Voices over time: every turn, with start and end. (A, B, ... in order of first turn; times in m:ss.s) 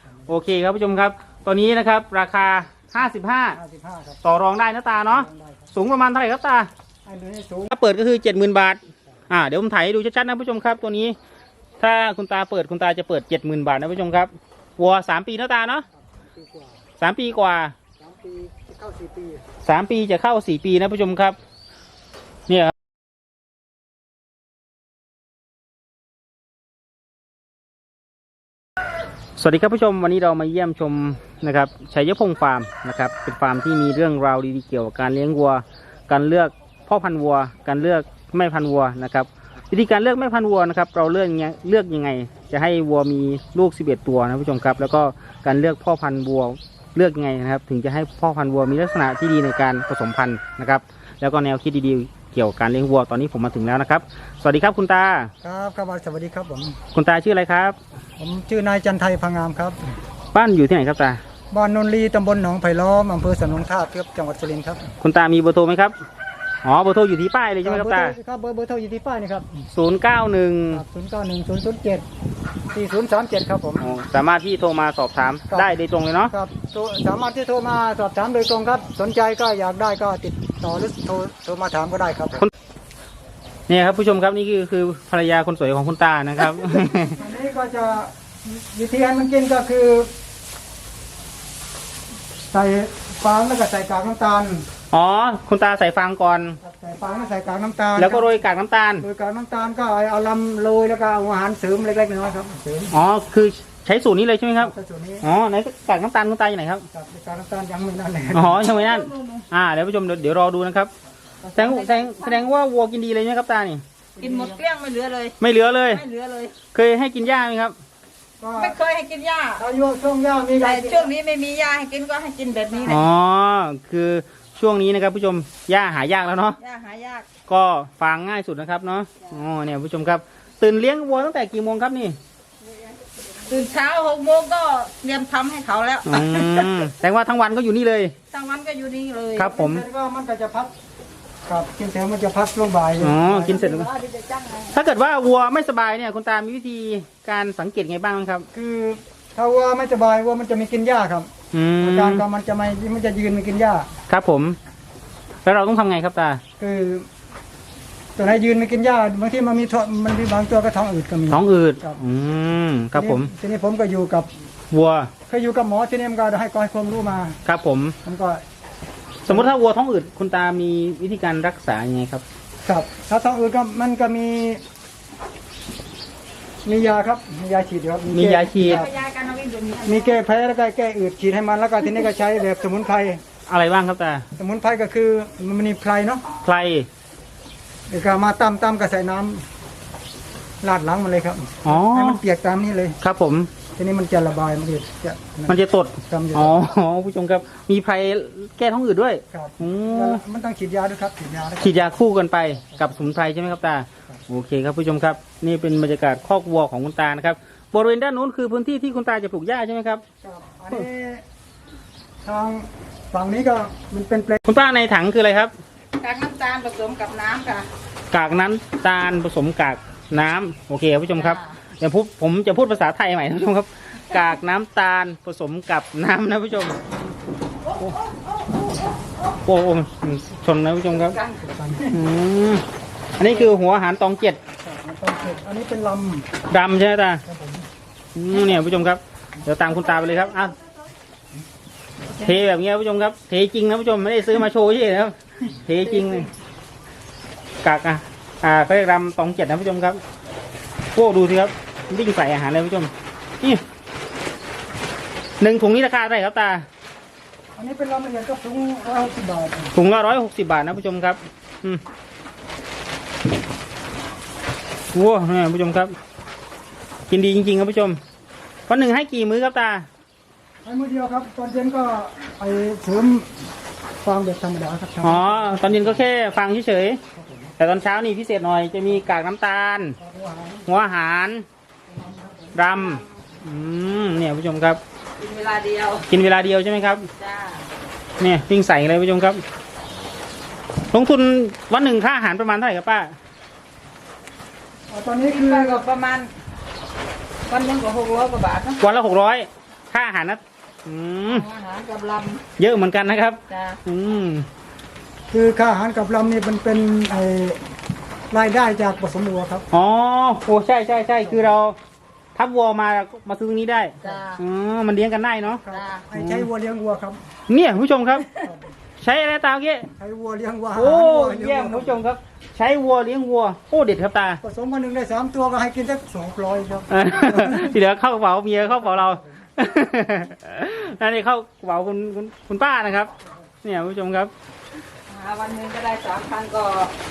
0:00.3-0:03.6 A
0:03.5-0:04.2 B
0:04.2-0:06.7 A
0:05.1-0:05.7 B
0:07.0-0:07.7 B
0:07.7-0:11.2 A
0:11.8-0:15.9 A
0:16.0-0:16.8 B
0:17.0-0:17.8 A
0:18.0-0:19.4 B
0:19.6-0:21.4 A
0:22.5-0:22.7 A
0:29.4-0:55.3 A
0:55.4-0:56.8 B
0:56.9-0:57.8 A
0:58.2-1:00.0 B
1:00.3-1:01.2 A
1:01.5-1:04.9 B
1:05.0-1:06.0 A
1:06.6-1:08.2 A
1:07.6-1:09.7 B
1:09.7-1:10.8 A
1:10.7-1:12.0 B
1:12.7-1:13.9 B
1:13.8-1:16.3 A
1:16.3-1:22.5 B
1:23.7-1:27.2 A
1:27.1-1:30.1 B
1:32.5-1:34.7 B
1:34.9-1:36.6 A
1:36.6-1:38.4 B
1:38.0-1:39.1 A
1:39.0-1:43.0 B
1:42.9-1:46.9 A
1:44.6-1:45.3 B
1:46.9-1:48.6 B
1:48.3-1:50.9 A
1:48.6-1:49.5 C
1:51.4-1:52.2 B
1:51.6-1:53.8 A
1:51.7-1:52.4 C
1:54.2-1:54.6 B
1:54.2-1:55.4 C
1:55.4-1:56.0 A
1:55.9-1:56.6 C
1:56.7-1:57.8 A
1:58.4-1:58.8 B
1:58.6-1:59.6 C
1:59.6-2:01.1 B
2:00.6-2:03.1 C
2:02.8-2:06.6 A
2:06.6-2:07.3 C
2:07.5-2:12.2 A
2:12.7-2:16.9 C
2:16.0-2:18.2 A
2:18.3-2:19.6 C
2:19.4-2:19.8 A
2:19.5-2:20.7 B
2:21.5-2:23.8 B
2:23.0-2:23.9 A
2:23.4-2:24.8 C
2:24.7-2:28.5 A
2:28.5-2:33.9 B
2:31.5-2:32.2 A
2:34.1-2:34.6 A
2:35.5-2:36.4 A
2:36.6-2:37.1 B
2:38.2-2:42.0 B
2:41.3-2:43.3 A
2:42.9-2:44.3 B
2:44.7-2:45.1 A
2:45.3-2:47.4 B
2:47.5-2:48.0 A
2:48.0-2:48.4 B
2:49.3-2:49.5 B
2:49.3-2:52.2 A
2:52.6-2:54.6 B
2:56.6-2:58.9 B
2:58.1-2:58.9 A
2:58.6-3:00.2 C
2:59.8-3:03.2 B
3:03.5-3:04.2 A
3:04.4-3:06.2 B
3:06.4-3:06.9 A
3:07.9-3:09.4 B
3:10.6-3:13.0 B
3:11.6-3:12.2 A
3:13.0-3:13.5 A
3:13.8-3:16.6 B
3:15.5-3:20.2 A
3:19.3-3:21.8 B
3:21.6-3:30.0 A
3:22.8-3:23.2 B
3:30.2-3:31.2 B
3:32.2-3:34.4 B
3:34.4-3:35.6 A
3:36.0-3:37.7 C
3:38.1-3:46.8 A
3:41.2-3:41.6 C
3:47.8-3:48.6 C
3:49.4-3:51.2 A
3:51.1-3:51.6 C
3:51.4-3:52.0 B
3:51.9-3:52.6 A
3:53.2-3:54.4 A
3:53.3-3:53.5 B
3:54.6-3:56.3 B
3:56.5-3:57.2 A
3:57.3-3:57.7 B
3:58.2-4:00.6 A
4:02.1-4:06.3 A
4:07.6-4:10.0 A
4:11.0-4:13.6 A
4:15.4-4:16.7 A
4:17.6-4:19.8 B
4:19.7-4:21.8 A
4:24.9-4:25.9 A
4:27.1-4:28.0 A
4:28.7-4:29.9 A
4:30.6-4:33.5 B
4:34.0-4:36.0 B
4:35.0-4:37.0 A
4:37.1-4:37.5 B
4:37.6-4:40.0 A
4:40.0-4:40.9 B
4:40.7-4:41.4 A
4:41.9-4:42.8 B
4:42.6-4:44.8 A
4:42.8-4:43.0 C
4:45.2-4:46.1 C
4:46.1-4:47.1 A
4:47.2-4:47.7 C
4:48.2-4:49.4 A
4:50.9-4:53.2 A
4:54.9-4:55.9 B
4:55.2-4:56.3 C
4:57.5-4:58.8 C
4:58.8-5:01.5 A
5:01.3-5:02.4 C
5:02.6-5:04.5 A
5:03.5-5:03.8 C
5:05.3-5:07.6 B
5:08.3-5:09.7 B
5:09.7-5:11.8 A
5:11.2-5:11.5 B
5:12.4-5:16.5 A
5:14.0-5:14.4 C
5:14.0-5:14.3 B
5:15.5-5:17.2 B
5:15.7-5:16.1 C
5:17.5-5:18.3 A
5:18.4-5:18.8 B
5:19.0-5:19.9 A
5:20.0-5:22.0 B
5:20.8-5:24.4 A
5:24.4-5:27.8 B
5:26.9-5:33.1 A
5:28.6-5:29.5 B
5:33.6-5:34.3 A
5:35.1-5:36.9 C